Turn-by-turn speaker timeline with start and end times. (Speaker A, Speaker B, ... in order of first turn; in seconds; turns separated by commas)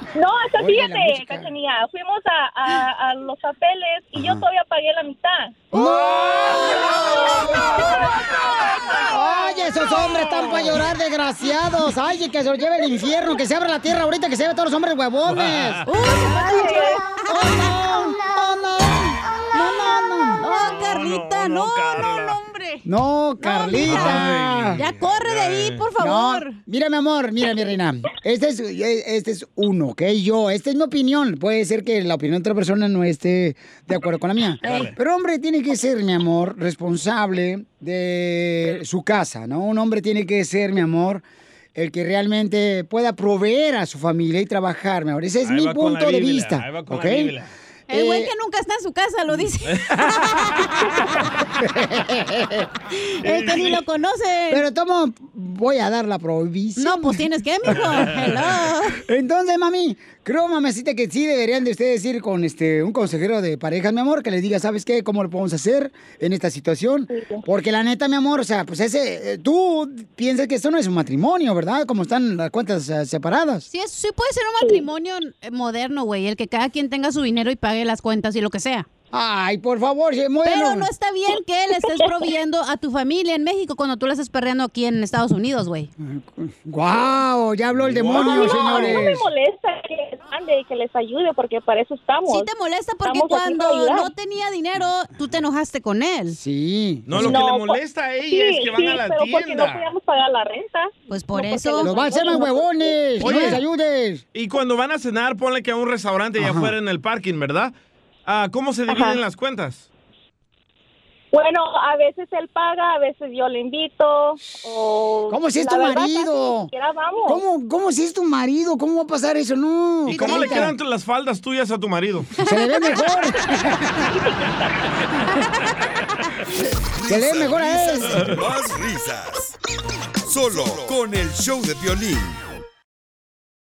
Speaker A: 0.1-5.6, Speaker B: 0.6-1.5, Speaker B: 4.1-4.4, Speaker C: 5.7-6.7, Speaker B: 5.7-7.8, Speaker A: 7.1-8.8, Speaker B: 9.1-15.8, Speaker D: 10.0-10.8, Speaker D: 15.2-15.9, Speaker C: 15.9-17.2, Speaker A: 16.2-17.0, Speaker B: 17.2-20.4, Speaker C: 19.5-19.8, Speaker C: 20.4-22.8, Speaker D: 20.5-22.4, Speaker B: 22.8-24.8, Speaker C: 23.4-24.2, Speaker D: 23.8-25.9, Speaker C: 24.8-26.6, Speaker B: 26.0-41.2, Speaker D: 34.6-34.9, Speaker B: 41.7-47.3, Speaker D: 45.4-47.5, Speaker C: 47.9-50.6, Speaker B: 47.9-48.3, Speaker D: 49.7-50.6, Speaker B: 51.6-52.7, Speaker C: 53.2-54.6, Speaker D: 53.2-53.8, Speaker B: 54.5-57.3, Speaker C: 56.8-59.0, Speaker D: 57.7-58.5, Speaker B: 59.0-73.7, Speaker A: 67.1-67.4, Speaker C: 73.7-78.8, Speaker A: 74.6-74.8, Speaker B: 79.1-80.9, Speaker C: 80.4-85.9, Speaker A: 81.8-82.1, Speaker B: 86.0-89.3, Speaker D: 87.7-89.0, Speaker A: 88.1-92.5, Speaker C: 92.3-96.4, Speaker A: 93.0-94.1, Speaker B: 96.3-97.4, Speaker D: 97.1-99.8, Speaker A: 97.2-103.1, Speaker C: 101.1-102.0, Speaker B: 101.8-104.2, Speaker D: 103.2-103.6, Speaker C: 103.2-103.6, Speaker D: 104.3-107.7, Speaker B: 106.4-106.7, Speaker D: 108.2-109.8, Speaker A: 108.9-109.2, Speaker A: 111.3-117.4, Speaker B: 115.3-116.7, Speaker B: 117.3-120.7, Speaker D: 120.1-122.3, Speaker C: 120.1-120.6, Speaker B: 122.4-123.8, Speaker C: 122.6-123.0, Speaker E: 127.0-129.5, Speaker B: 127.1-128.3, Speaker D: 128.0-128.4, Speaker E: 130.3-132.4